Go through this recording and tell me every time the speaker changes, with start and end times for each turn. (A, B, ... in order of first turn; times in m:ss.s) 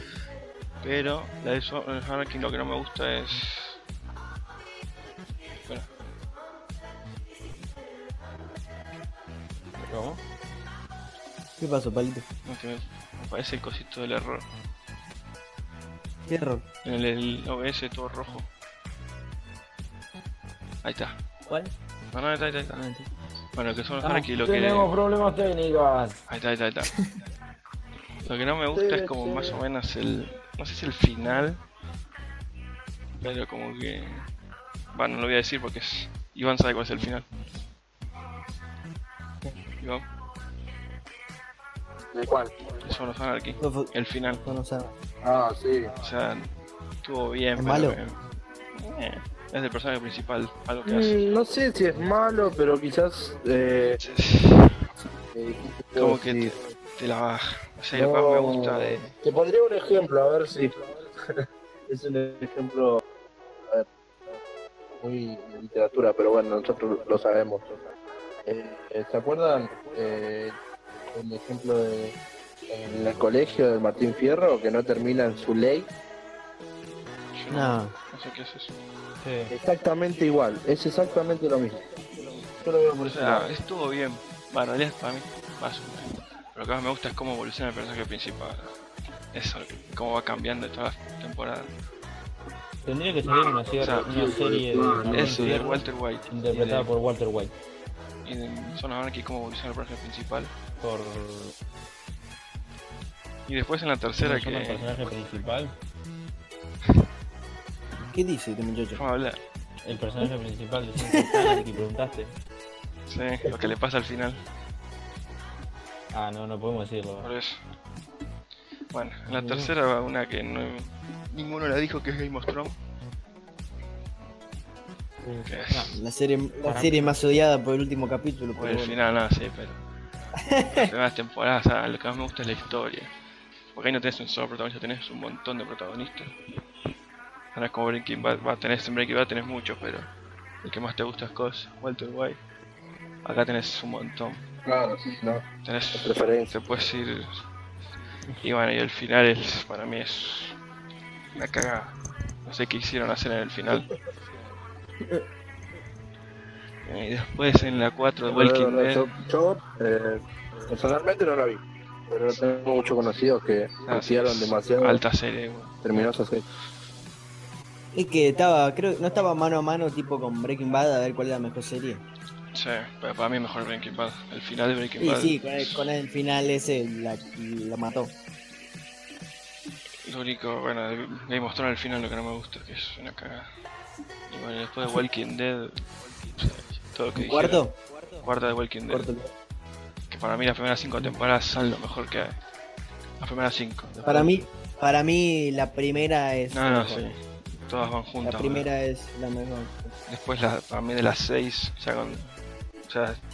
0:00.8-0:03.8 A
0:09.8-0:10.2 B
0:11.6-0:12.2 B
0:12.4-0:14.4 A
0:16.3-0:16.6 B
0:16.8-0:18.4 A
0:20.8-0:21.1 A
0:21.5-0:21.7 B
0:22.1-0:22.8 A
0:22.7-0:23.1 B
0:23.5-0:24.9 A
0:24.3-0:26.2 C
0:26.3-0:27.0 A
0:28.2-0:31.6 A
0:28.7-0:29.6 D
0:33.2-0:34.2 A
0:34.9-0:37.3 A
0:39.8-0:40.0 A
0:42.1-0:42.6 D
0:42.8-0:44.4 A
0:43.6-0:43.9 B
0:44.4-0:44.9 B
0:45.2-0:45.9 D
0:46.0-0:46.5 A
0:47.0-0:48.2 A
0:47.6-0:48.0 B
0:48.7-0:51.2 A
0:50.8-0:54.0 D
0:54.0-0:54.8 A
0:55.3-0:56.6 D
0:56.0-0:59.1 A
0:57.9-1:03.0 D
1:03.6-1:03.9 D
1:05.0-1:07.8 D
1:08.4-1:10.6 D
1:11.1-1:12.2 D
1:12.7-1:15.9 D
1:17.4-1:18.7 A
1:17.5-1:17.9 B
1:19.2-1:19.5 C
1:19.5-1:21.8 D
1:22.6-1:23.5 D
1:23.1-1:28.7 A
1:29.3-1:31.7 A
1:32.8-1:37.5 C
1:33.3-1:35.6 D
1:33.8-1:34.2 A
1:35.0-1:36.9 A
1:38.2-1:40.5 A
1:40.8-1:41.5 C
1:43.5-1:44.9 A
1:44.2-1:45.7 C
1:48.1-1:49.0 B
1:48.9-1:49.4 A
1:49.8-1:52.3 C
1:51.0-1:51.5 B
1:53.1-1:54.4 A
1:56.1-1:57.3 C
1:57.2-1:57.6 A
1:58.9-2:02.8 A
1:59.3-1:59.7 B
2:05.2-2:09.0 B
2:05.4-2:06.0 A
2:06.6-2:07.2 C
2:08.6-2:09.8 A
2:10.4-2:10.9 B
2:10.7-2:13.1 A
2:13.7-2:16.3 A
2:17.5-2:20.1 A
2:20.6-2:22.4 A
2:23.2-2:24.4 A
2:24.6-2:26.6 D
2:25.6-2:27.4 A
2:28.4-2:30.6 A
2:31.3-2:33.9 A
2:36.8-2:39.1 A
2:38.2-2:45.0 D
2:43.9-2:46.0 A
2:45.8-2:46.4 D
2:47.9-2:52.0 B
2:52.5-2:55.8 A
2:55.0-2:58.1 B
3:00.0-3:03.5 A
3:04.3-3:07.6 A
3:07.1-3:07.8 B
3:08.2-3:09.1 A
3:08.9-3:09.3 B
3:10.1-3:12.4 A
3:13.2-3:14.4 A
3:14.0-3:17.0 B
3:16.5-3:18.7 A
3:18.2-3:19.9 B
3:20.1-3:22.3 A
3:22.9-3:23.2 A